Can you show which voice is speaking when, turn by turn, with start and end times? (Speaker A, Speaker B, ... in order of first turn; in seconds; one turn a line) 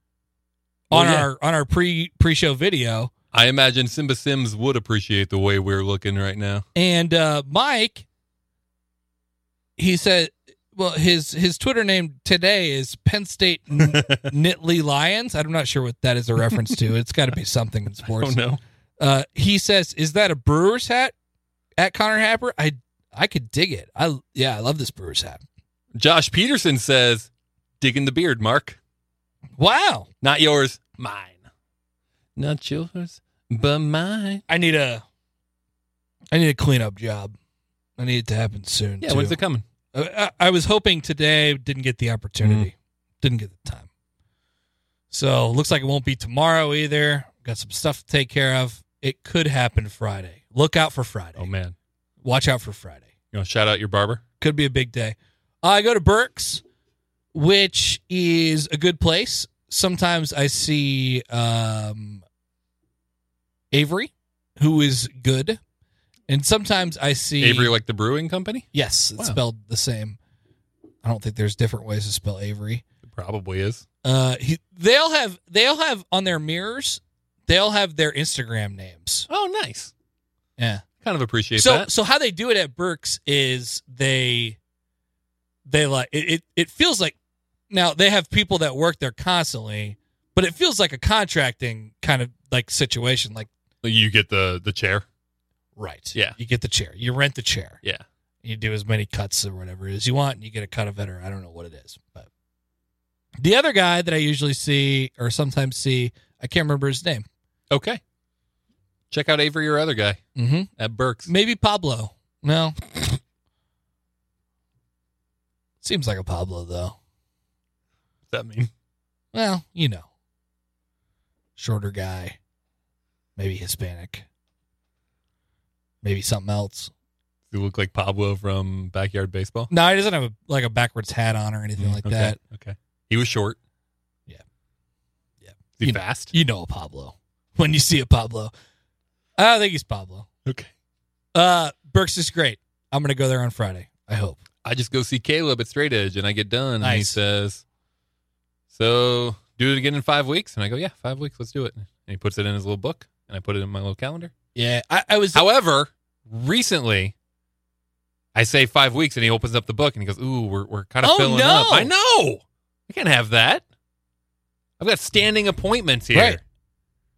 Speaker A: 0.9-1.3
Speaker B: 0.9-3.1
Speaker A: 3.3-6.6
Speaker B: 6.7-8.0
Speaker B: 9.8-18.4
Speaker A: 13.8-14.3
Speaker A: 16.5-16.8
Speaker A: 18.0-18.6
Speaker B: 19.0-21.1
Speaker B: 21.8-25.4
Speaker A: 25.9-28.8
Speaker B: 29.6-30.1
Speaker A: 30.2-31.4
Speaker A: 32.4-34.4
Speaker B: 34.5-35.0
Speaker B: 36.3-37.3
Speaker B: 38.0-39.4
Speaker A: 39.0-39.6
Speaker B: 39.9-43.9
Speaker A: 42.4-42.7
Speaker B: 45.1-51.5
Speaker A: 51.4-51.7
Speaker B: 52.2-53.0
Speaker A: 53.3-54.2
Speaker B: 54.4-56.6
Speaker B: 57.3-62.2
Speaker B: 63.7-65.6
Speaker B: 66.3-67.7
Speaker A: 67.4-68.7
Speaker B: 68.7-70.2
Speaker B: 71.0-72.8
Speaker A: 73.0-73.8
Speaker B: 74.0-79.3
Speaker A: 79.3-79.9
Speaker B: 80.6-80.8
Speaker A: 81.0-81.9
Speaker B: 81.5-84.6
Speaker B: 85.7-87.2
Speaker B: 87.7-93.5
Speaker A: 93.8-95.0
Speaker B: 95.8-97.8
Speaker B: 98.4-102.3
Speaker B: 103.4-107.2
Speaker A: 107.7-108.0
Speaker A: 109.1-110.2
Speaker B: 110.3-110.7
Speaker A: 110.8-111.3
Speaker B: 111.2-112.8
Speaker B: 115.8-116.9
Speaker A: 118.3-118.7
Speaker B: 119.3-120.0
Speaker B: 121.6-122.4
Speaker B: 123.4-124.2
Speaker B: 126.0-126.9
Speaker A: 127.5-129.7
Speaker B: 129.7-132.4
Speaker A: 131.8-133.6
Speaker B: 135.4-138.5
Speaker A: 135.8-136.3
Speaker B: 139.4-140.3
Speaker A: 140.4-140.7
Speaker B: 141.3-144.4
Speaker A: 144.6-147.6
Speaker B: 146.8-147.2
Speaker A: 148.7-154.3
Speaker B: 154.5-155.4
Speaker A: 155.3-157.1
Speaker A: 158.3-163.6
Speaker B: 161.0-161.9
Speaker A: 164.8-166.4
Speaker B: 166.1-166.4